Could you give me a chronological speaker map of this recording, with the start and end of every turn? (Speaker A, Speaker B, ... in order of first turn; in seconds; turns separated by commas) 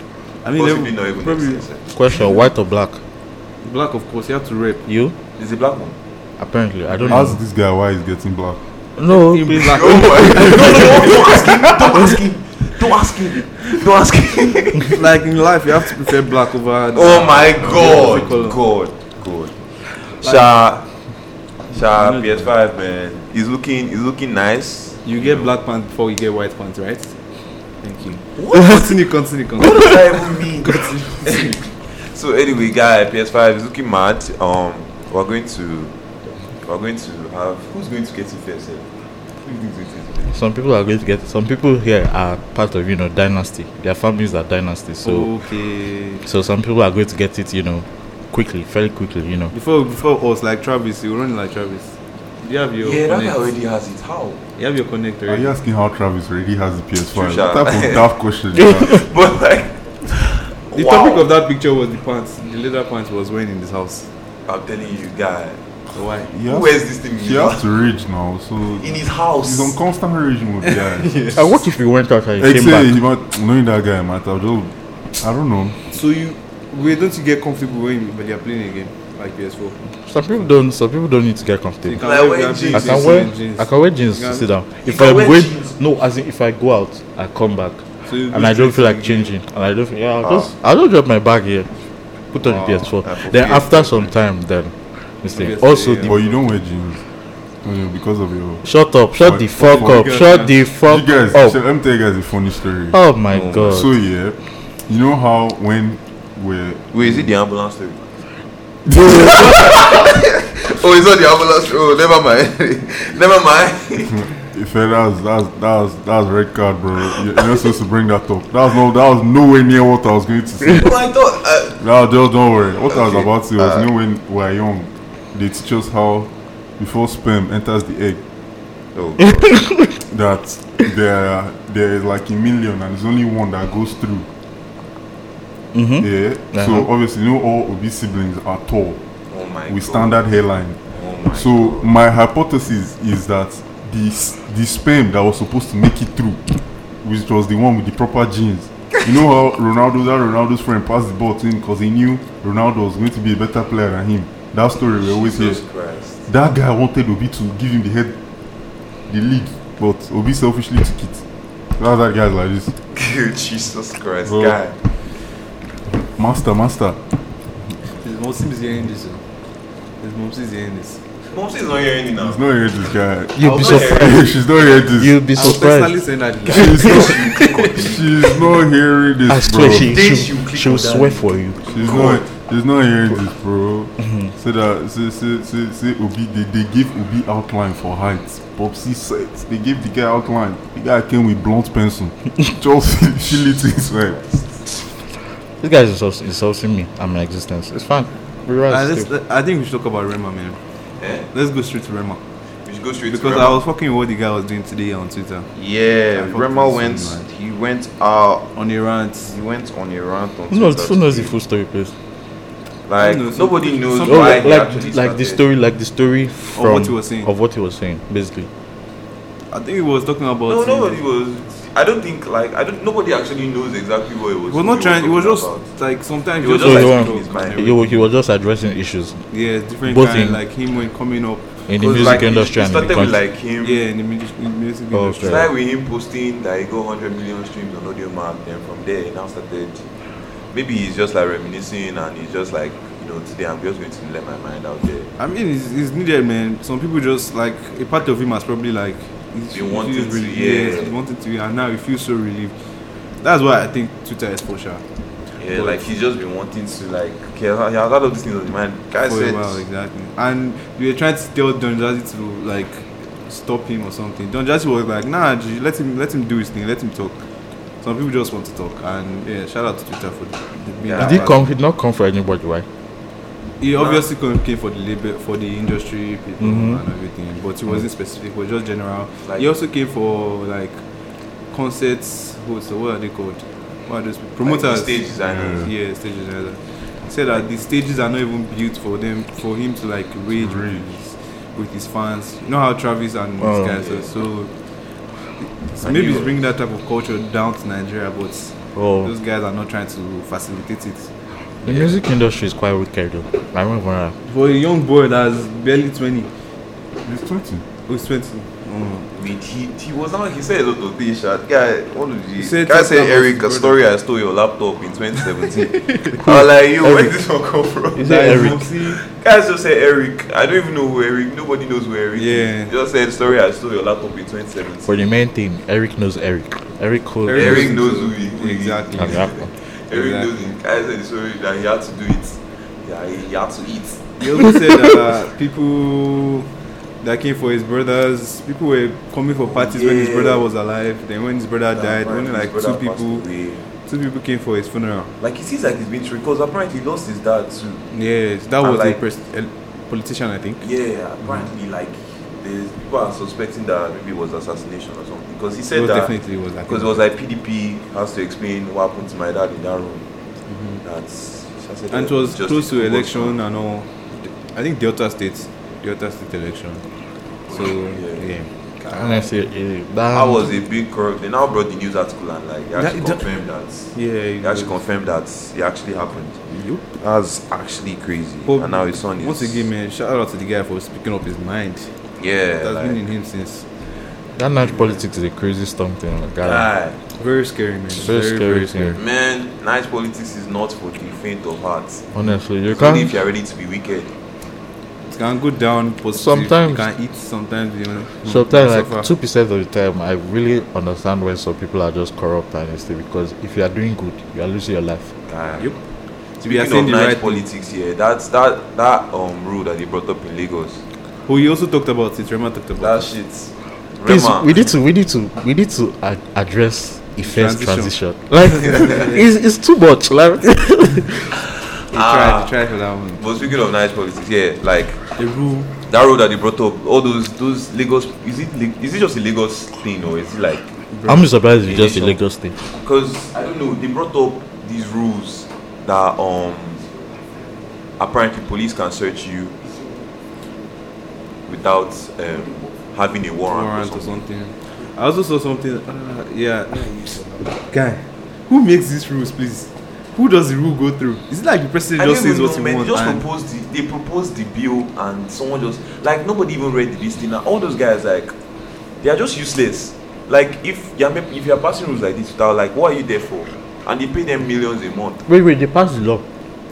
Speaker A: 0.4-1.6, Speaker B: 0.5-1.9, Speaker C: 1.9-3.0, Speaker A: 3.6-4.9, Speaker C: 4.9-5.2, Speaker B: 5.4-6.0, Speaker C: 6.4-7.4, Speaker D: 7.0-8.6, Speaker C: 9.0-10.9, Speaker A: 9.1-11.5, Speaker B: 9.6-15.1, Speaker A: 14.8-18.6, Speaker B: 16.9-20.9, Speaker D: 17.6-18.3, Speaker A: 20.2-20.6, Speaker B: 21.7-25.5, Speaker A: 22.0-22.5, Speaker A: 25.1-27.1, Speaker A: 27.8-31.5, Speaker B: 28.4-36.0, Speaker B: 36.6-38.9, Speaker B: 39.4-40.3, Speaker C: 40.3-45.3, Speaker A: 45.0-46.2, Speaker C: 46.2-49.5, Speaker A: 49.5-53.4, Speaker B: 52.8-54.4, Speaker A: 54.6-55.5, Speaker D: 55.3-59.1, Speaker B: 57.1-58.1, Speaker C: 58.6-59.0, Speaker B: 58.7-61.3, Speaker A: 60.7-64.1, Speaker B: 64.5-65.6, Speaker A: 65.9-66.3, Speaker D: 66.3-71.4, Speaker B: 66.4-67.7, Speaker B: 68.8-69.8, Speaker A: 70.6-71.6, Speaker C: 71.3-73.0, Speaker D: 72.4-75.8, Speaker A: 75.9-79.8, Speaker C: 80.0-82.1, Speaker A: 81.8-84.5, Speaker B: 82.0-83.3, Speaker C: 82.7-91.7, Speaker B: 84.8-85.8, Speaker A: 88.1-89.3, Speaker B: 90.2-90.5, Speaker C: 92.3-96.2, Speaker B: 92.4-94.1, Speaker A: 95.3-96.3, Speaker D: 96.0-97.0, Speaker D: 97.6-98.7, Speaker C: 98.7-101.6, Speaker D: 99.2-100.1, Speaker A: 99.5-100.6, Speaker D: 100.8-103.0, Speaker C: 102.9-103.9, Speaker B: 103.3-103.9, Speaker D: 103.7-107.3, Speaker B: 106.9-108.1, Speaker D: 108.9-109.5, Speaker B: 109.1-114.3, Speaker D: 114.1-121.0, Speaker B: 117.1-117.7, Speaker B: 120.7-121.8, Speaker D: 121.8-128.2, Speaker B: 122.9-123.9, Speaker B: 128.9-129.6, Speaker C: 129.2-129.9, Speaker D: 130.1-134.3, Speaker C: 135.7-136.9, Speaker D: 136.0-139.0, Speaker B: 139.3-140.2, Speaker D: 139.7-140.8, Speaker B: 140.9-141.9, Speaker D: 141.3-155.6, Speaker B: 155.0-156.3, Speaker D: 156.3-158.2, Speaker D: 159.1-161.2, Speaker D: 161.8-162.7, Speaker B: 162.9-164.8, Speaker D: 164.2-164.6, Speaker D: 166.2-167.0, Speaker A: 168.0-169.2, Speaker A: 170.0-171.0, Speaker B: 171.3-172.4, Speaker D: 172.2-175.2, Speaker C: 173.4-174.3, Speaker A: 173.4-174.0, Speaker B: 173.4-174.4, Speaker C: 174.9-177.7, Speaker A: 175.4-177.2, Speaker D: 176.5-180.0, Speaker B: 176.5-178.5, Speaker C: 179.3-182.1, Speaker B: 179.7-182.2, Speaker D: 181.7-194.2, Speaker C: 184.0-184.3, Speaker B: 194.1-194.4, Speaker C: 195.6-199.1, Speaker A: 198.7-200.6, Speaker B: 201.0-201.3, Speaker A: 201.3-202.2, Speaker B: 202.7-203.6, Speaker A: 203.1-205.5, Speaker B: 205.6-208.5, Speaker A: 206.1-207.3, Speaker A: 208.5-209.3, Speaker B: 209.3-211.3, Speaker C: 210.5-211.9, Speaker B: 212.9-215.4, Speaker A: 213.0-214.6, Speaker C: 214.1-218.5, Speaker A: 216.6-217.3, Speaker A: 219.5-221.0, Speaker B: 220.5-225.7, Speaker A: 224.5-228.0, Speaker B: 226.4-227.7, Speaker C: 226.5-229.2, Speaker A: 229.3-232.2, Speaker C: 229.8-230.4, Speaker C: 231.7-233.2, Speaker B: 231.8-233.8, Speaker A: 233.6-235.5, Speaker C: 234.9-235.5, Speaker B: 235.2-239.8, Speaker B: 240.5-245.1, Speaker A: 245.2-252.5, Speaker B: 249.5-251.0, Speaker A: 253.2-254.8, Speaker B: 255.4-259.6, Speaker A: 255.5-255.9, Speaker A: 259.1-267.2, Speaker A: 267.8-271.5, Speaker B: 270.8-271.4, Speaker C: 270.9-272.7, Speaker A: 273.6-280.8, Speaker B: 273.7-274.1, Speaker C: 276.4-276.8, Speaker B: 279.2-279.5, Speaker A: 281.5-294.5, Speaker B: 284.4-285.7, Speaker D: 285.3-285.7, Speaker D: 290.3-290.9, Speaker C: 293.4-293.8, Speaker B: 293.8-294.1, Speaker A: 295.4-301.1, Speaker B: 295.8-296.3, Speaker C: 298.8-299.1, Speaker C: 301.6-304.1, Speaker A: 301.6-302.0, Speaker A: 304.2-306.3, Speaker D: 307.1-307.6, Speaker A: 307.9-309.1, Speaker B: 309.1-325.0, Speaker A: 312.4-313.8, Speaker A: 315.2-316.2, Speaker C: 316.2-317.2, Speaker C: 317.9-318.6, Speaker A: 318.0-319.0, Speaker A: 322.2-322.7, Speaker C: 324.9-327.8, Speaker A: 327.2-330.4, Speaker B: 327.3-334.5, Speaker C: 329.0-329.4, Speaker A: 334.2-336.5, Speaker A: 337.0-343.2, Speaker B: 339.5-340.5, Speaker B: 341.7-343.6, Speaker A: 343.8-345.1, Speaker B: 345.2-347.9, Speaker A: 347.9-350.6, Speaker B: 348.6-349.0, Speaker B: 350.6-360.1, Speaker A: 355.7-357.0, Speaker A: 360.5-360.8, Speaker B: 360.8-363.4, Speaker A: 361.9-366.8, Speaker B: 367.5-369.3, Speaker A: 367.5-368.5, Speaker C: 368.9-370.5, Speaker B: 370.1-379.7, Speaker A: 372.8-373.4, Speaker A: 373.9-374.8, Speaker A: 376.6-376.8, Speaker A: 378.5-381.9, Speaker B: 382.2-383.0, Speaker A: 382.6-383.7, Speaker C: 384.4-386.7, Speaker B: 386.4-387.0, Speaker A: 387.2-389.0, Speaker C: 388.0-389.0, Speaker B: 388.9-392.1, Speaker C: 392.1-393.2, Speaker B: 392.7-394.1, Speaker A: 395.1-399.1, Speaker C: 396.1-396.9, Speaker C: 398.2-405.1, Speaker B: 405.3-405.8, Speaker A: 406.4-407.5, Speaker B: 406.4-410.8, Speaker A: 411.2-413.1, Speaker B: 412.8-414.7, Speaker C: 414.1-421.4, Speaker A: 417.2-417.9, Speaker A: 418.5-419.2, Speaker B: 418.7-419.1, Speaker B: 421.9-422.6, Speaker A: 421.9-423.3, Speaker B: 423.2-425.1, Speaker A: 425.2-425.7, Speaker B: 425.8-430.8, Speaker A: 430.9-431.3, Speaker C: 431.1-432.6, Speaker B: 431.7-436.9, Speaker B: 438.0-439.6, Speaker B: 441.5-444.2, Speaker A: 443.5-453.2, Speaker B: 452.0-458.3, Speaker B: 459.0-465.3, Speaker C: 465.3-466.2